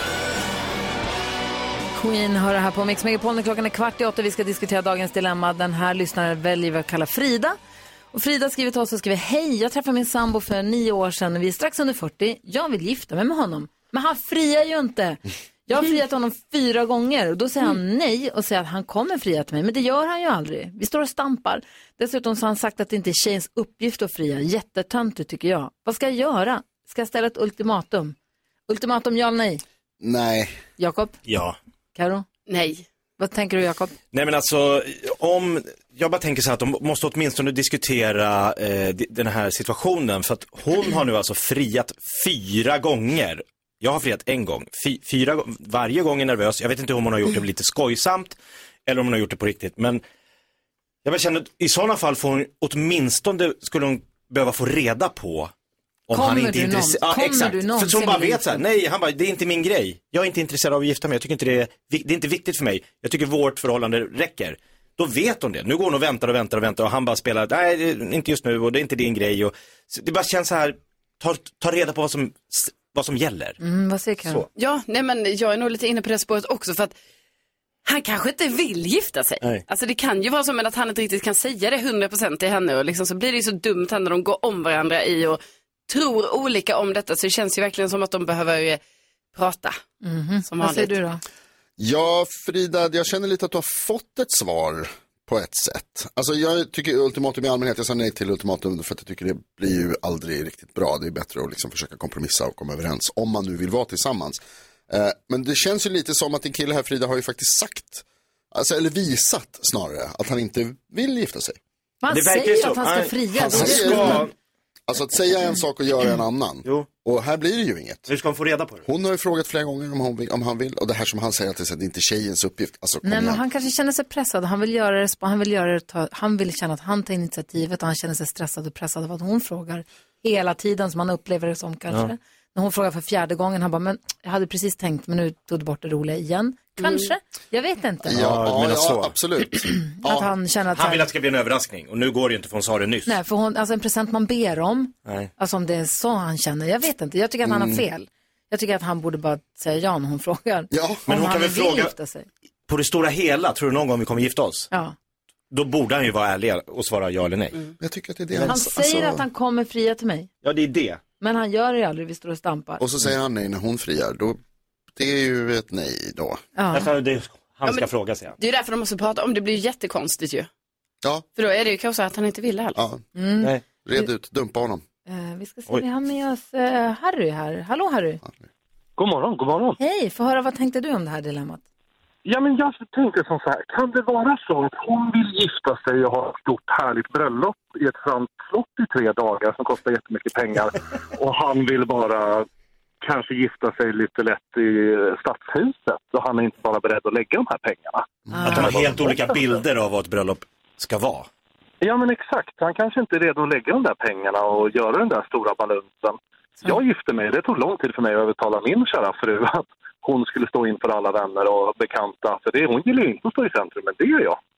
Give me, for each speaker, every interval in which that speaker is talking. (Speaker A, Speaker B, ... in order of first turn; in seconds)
Speaker A: 1.9-7.5, 8.1-28.1, 28.7-29.6, 30.8-31.2, 31.9-32.3, 33.2-33.9, 56.1-58.6, 73.6-74.4, 90.0-91.2, 112.0-114.2, 123.0-138.2, 140.0-141.1, 143.1-152.3, 158.5-160.3, 161.2-162.8, 166.6-166.9, 173.1-174.1, 175.1-178.2, 179.8-181.6, 198.3-198.7
Speaker B: 30.0-30.6, 91.8-111.6, 113.5-114.3, 114.9-118.1, 118.8-123.4, 138.1-140.2, 147.4-147.8, 150.7-151.0, 157.8-159.2, 162.8-164.4, 164.9-166.4, 172.8-173.0, 173.8-174.8
Speaker C: 31.2-31.6, 34.1-50.0, 51.0-55.5, 56.1-73.6, 112.1-114.3, 118.1-118.9, 138.1-139.1, 140.7-143.1, 151.1-151.9, 152.7-154.7, 155.5-157.6, 160.4-161.0, 166.7-168.3, 198.4-201.3
Speaker D: 32.5-32.9, 74.5-76.9, 77.8-88.8, 89.3-89.8, 90.5-91.0, 168.4-170.5, 171.4-172.8
Speaker E: 179.0-179.8, 182.2-192.5, 193.0-199.1, 201.8-214.4